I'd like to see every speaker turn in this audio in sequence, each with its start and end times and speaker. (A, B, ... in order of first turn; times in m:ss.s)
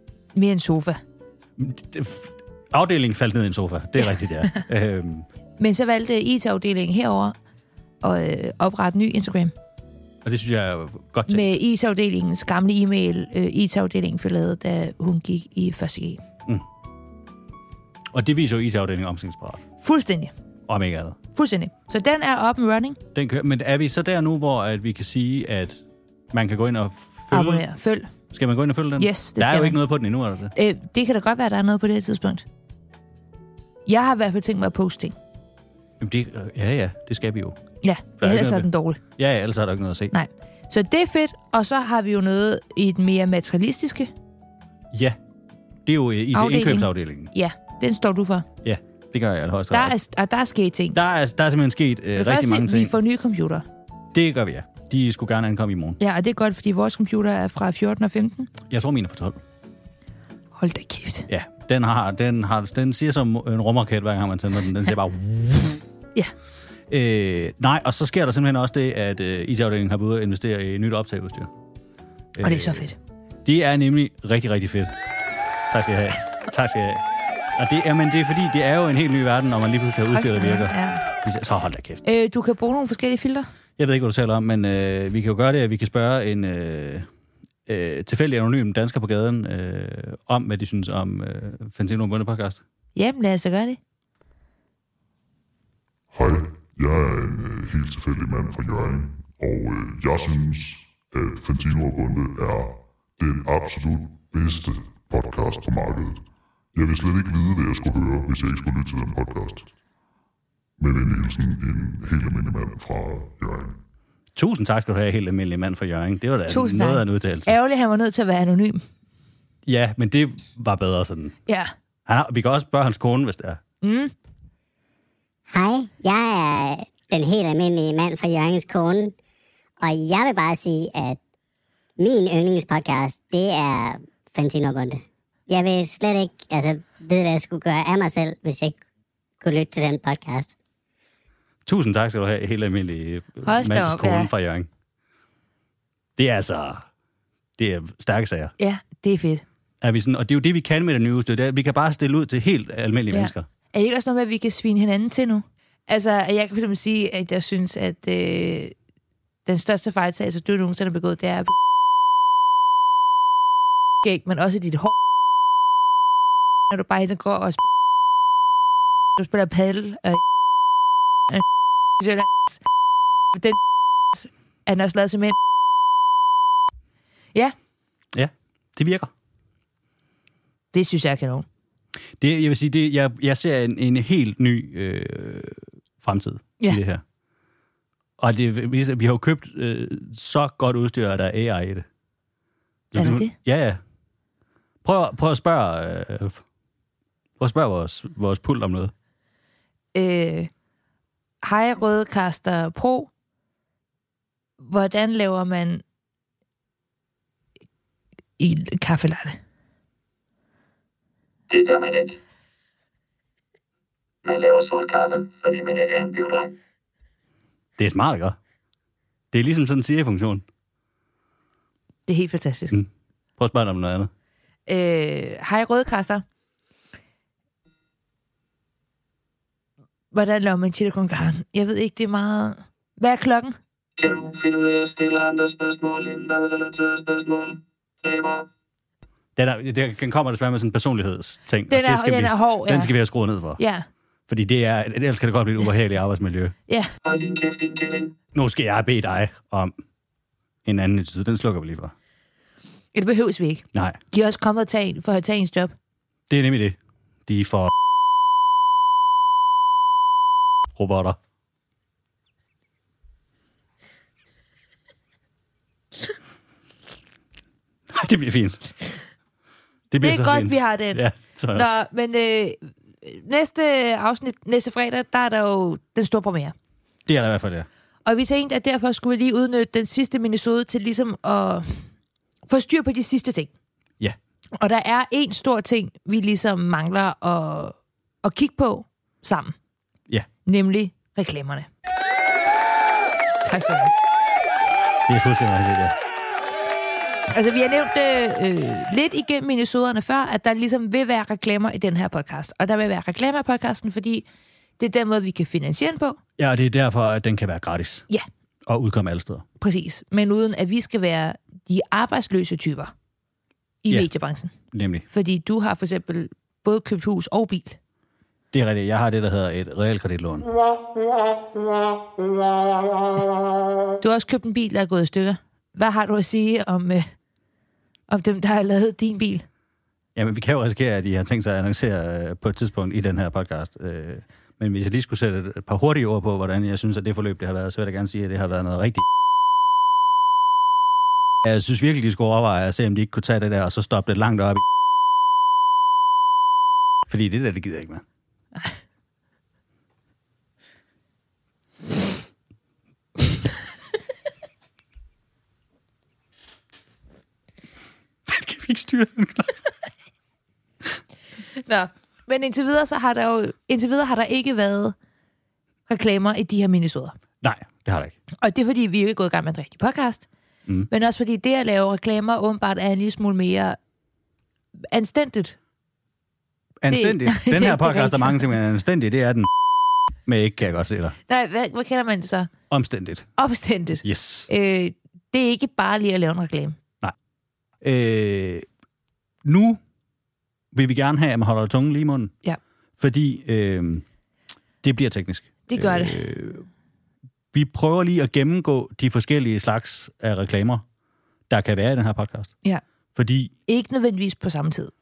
0:00.4-0:01.0 A
0:01.6-0:05.3 B
0:05.6-0:07.4 A
0:08.0-0:09.5 A
0:10.2-0:11.4 B
0:11.3-0:16.2 A
0:18.1-0:19.6 B
0:19.8-0:20.3 A
0:20.7-0:21.2 B
0:21.4-0:23.0 A
0:23.1-0:27.6 B
0:27.3-0:28.1 A
0:28.3-0:30.5 B
0:29.0-0:29.8 A
0:30.6-0:32.4 A
0:33.9-0:35.2 A
0:36.0-0:37.6 B
0:37.8-0:39.0 A
0:38.2-0:40.1 B
0:40.1-0:44.1 A
0:44.9-0:45.2 B
0:45.9-0:47.3 B
0:46.3-0:48.5 A
0:48.6-0:49.9 B
0:49.7-0:51.0 A
0:50.9-0:52.9 B
0:52.2-0:53.6 A
0:54.1-0:56.0 B
0:56.0-0:58.5 A
0:58.7-0:59.4 B
1:00.6-1:01.3 A
1:01.3-1:05.8 B
1:06.9-1:11.5 B
1:12.4-1:12.9 B
1:12.4-1:13.0 A
1:13.4-1:14.9 B
1:15.7-1:17.0 B
1:17.6-1:22.0 B
1:20.1-1:21.0 A
1:22.0-1:23.5 A
1:23.8-1:27.1 B
1:27.7-1:32.6 B
1:33.0-1:33.8 A
1:36.1-1:46.2 C
1:46.7-1:49.7 C
1:50.8-1:53.8 C
1:54.4-1:57.5 B
1:56.5-1:58.8 A
1:59.7-2:01.4 B
2:01.5-2:01.7 A
2:02.1-2:03.6 B
2:03.8-2:04.1 A
2:05.5-2:09.2 D
2:09.8-2:11.2 D
2:12.0-2:18.8 D
2:19.4-2:20.5 D
2:21.7-2:24.7 B
2:23.4-2:24.3 A
2:26.2-2:26.9 B
2:27.6-2:28.6 B
2:28.6-2:29.4 A
2:29.8-2:33.5 B
2:33.1-2:38.8 A
2:39.5-2:41.6 A
2:44.0-2:45.0 A
2:46.7-2:47.7 A
2:49.2-2:50.2 A
2:52.0-2:52.6 A
2:53.3-2:53.6 A
2:54.1-2:55.4 A
2:58.1-2:59.1 B
3:00.7-3:01.5 A
3:02.2-3:07.0 B
3:08.2-3:11.9 B
3:12.9-3:13.8 B
3:13.0-3:13.3 A
3:14.8-3:16.4 B
3:17.4-3:18.9 B
3:19.9-3:20.5 A
3:21.4-3:23.1 A
3:24.6-3:25.8 A
3:28.4-3:29.4 A
3:31.5-3:32.2 E
3:34.2-3:36.6 E
3:37.8-3:38.4 B
3:39.3-3:40.4 B
3:42.1-3:42.8 A
3:42.7-3:44.1 B
3:44.7-3:46.2 A
3:50.1-3:53.6 A
3:54.0-3:58.5 E
3:59.4-4:03.6 B
4:01.7-4:03.0 A
4:03.6-4:03.9 A
4:04.3-4:06.5 B
4:07.0-4:08.2 E
4:08.3-4:09.8 B
4:10.6-4:11.9 B
4:12.9-4:15.7 A
4:13.7-4:14.0 B
4:16.3-4:17.7 B
4:20.8-4:21.2 B
4:27.9-4:29.0 B
4:29.9-4:31.7 B
4:30.0-4:31.0 A
4:31.5-4:36.5 A
4:37.1-4:37.7 B
4:38.0-4:41.9 A
4:42.5-4:43.5 A
4:44.6-4:49.6 A
4:50.5-4:51.7 A
4:53.4-4:53.9 A
4:55.1-4:56.0 B
4:57.3-5:04.3 A
5:04.8-5:06.2 A
5:06.4-5:08.1 B
5:08.7-5:09.4 B
5:09.6-5:12.9 A
5:13.8-5:14.5 A
5:14.7-5:15.0 B
5:15.1-5:17.8 A
5:18.5-5:20.5 B
5:24.0-5:27.1 A
5:28.1-5:29.4 A
5:30.2-5:39.1 B
5:41.4-5:44.6 B
5:47.1-5:48.0 B
5:58.3-5:59.6 B
6:01.6-6:05.0 A
6:05.9-6:07.2 A
6:07.4-6:08.2 B
6:08.4-6:10.3 A
6:10.9-6:13.8 A
6:14.9-6:15.6 A
6:16.8-6:19.5 B
6:16.9-6:18.6 A
6:20.3-6:21.2 B
6:21.3-6:22.5 A
6:22.7-6:23.3 B
6:23.4-6:26.8 A
6:24.0-6:24.5 B
6:27.8-6:28.7 B
6:29.4-6:29.8 B
6:30.7-6:32.3 B
6:33.0-6:34.0 B
6:34.8-6:36.7 B
6:35.7-6:36.2 A
6:37.5-6:40.8 B
6:41.5-6:42.5 B
6:43.2-6:43.5 B
6:43.7-6:44.9 A